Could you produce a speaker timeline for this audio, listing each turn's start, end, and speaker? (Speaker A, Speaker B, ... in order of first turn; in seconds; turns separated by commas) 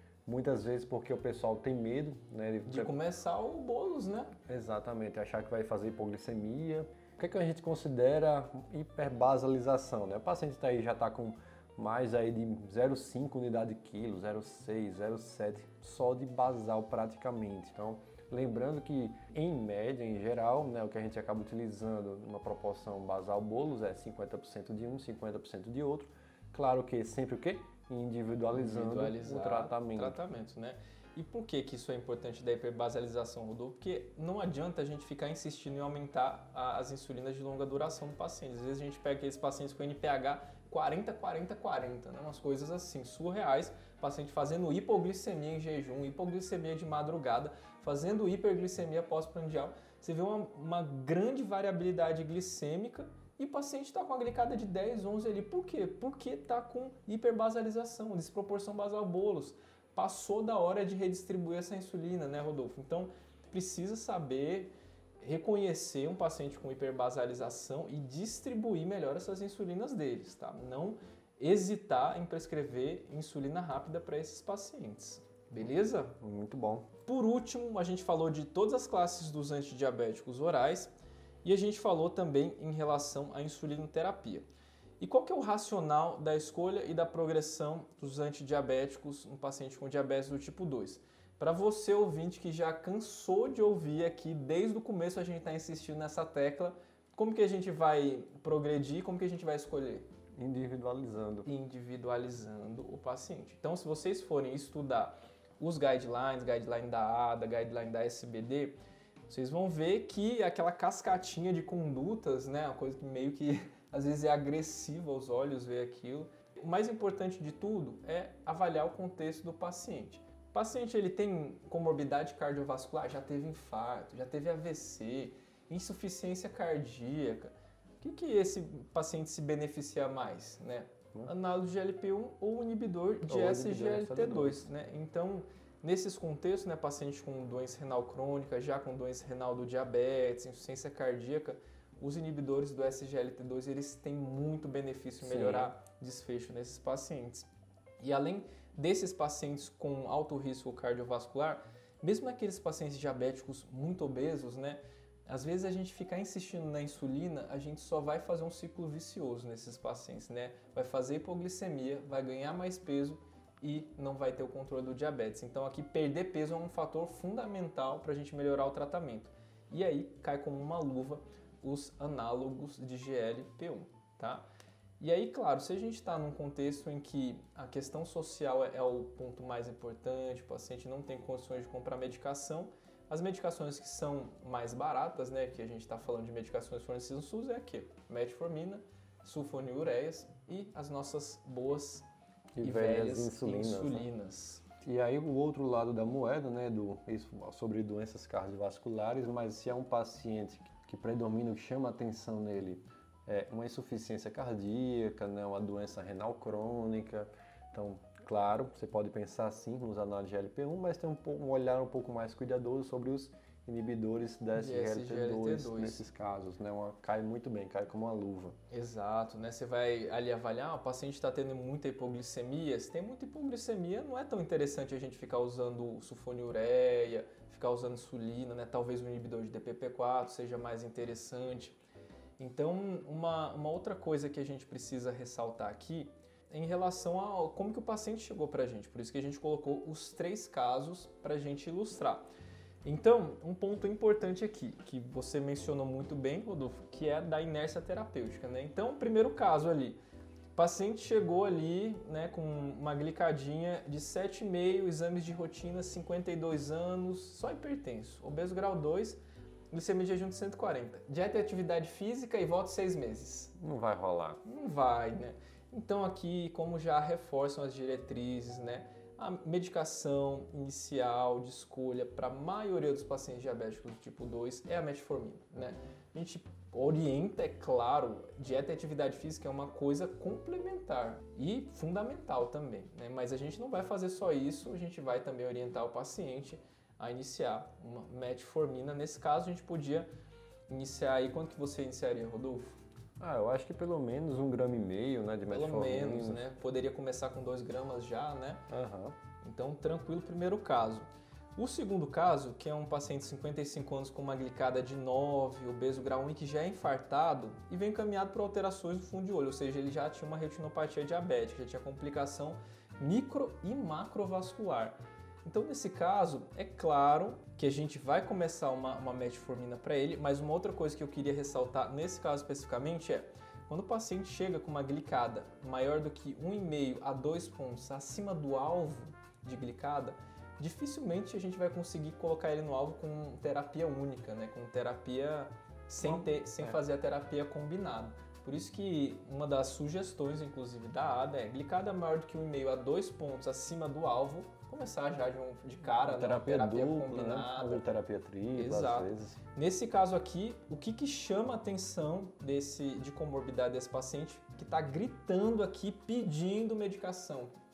Speaker A: 0.2-2.9, Speaker B: 2.6-4.4, Speaker A: 4.5-30.2, Speaker B: 28.5-76.2, Speaker A: 76.2-76.9, Speaker B: 77.1-80.9, Speaker B: 81.4-84.5, Speaker B: 85.0-100.0, Speaker A: 100.4-101.5, Speaker B: 101.4-108.8, Speaker B: 109.3-147.5, Speaker A: 133.3-134.7, Speaker A: 145.2-145.7, Speaker B: 148.0-174.4, Speaker B: 175.0-192.1, Speaker A: 192.6-194.1, Speaker B: 192.6-194.6, Speaker A: 194.8-218.6, Speaker B: 214.5-216.0, Speaker B: 218.7-231.8, Speaker B: 232.4-242.3, Speaker B: 242.8-250.0, Speaker B: 250.5-259.2, Speaker B: 259.7-263.5, Speaker A: 263.6-264.4, Speaker B: 264.4-290.1, Speaker B: 290.7-292.8, Speaker A: 293.2-296.4, Speaker B: 295.5-298.6, Speaker A: 298.7-299.1, Speaker B: 299.4-347.9, Speaker A: 336.0-336.8, Speaker A: 346.0-349.4, Speaker B: 348.5-357.5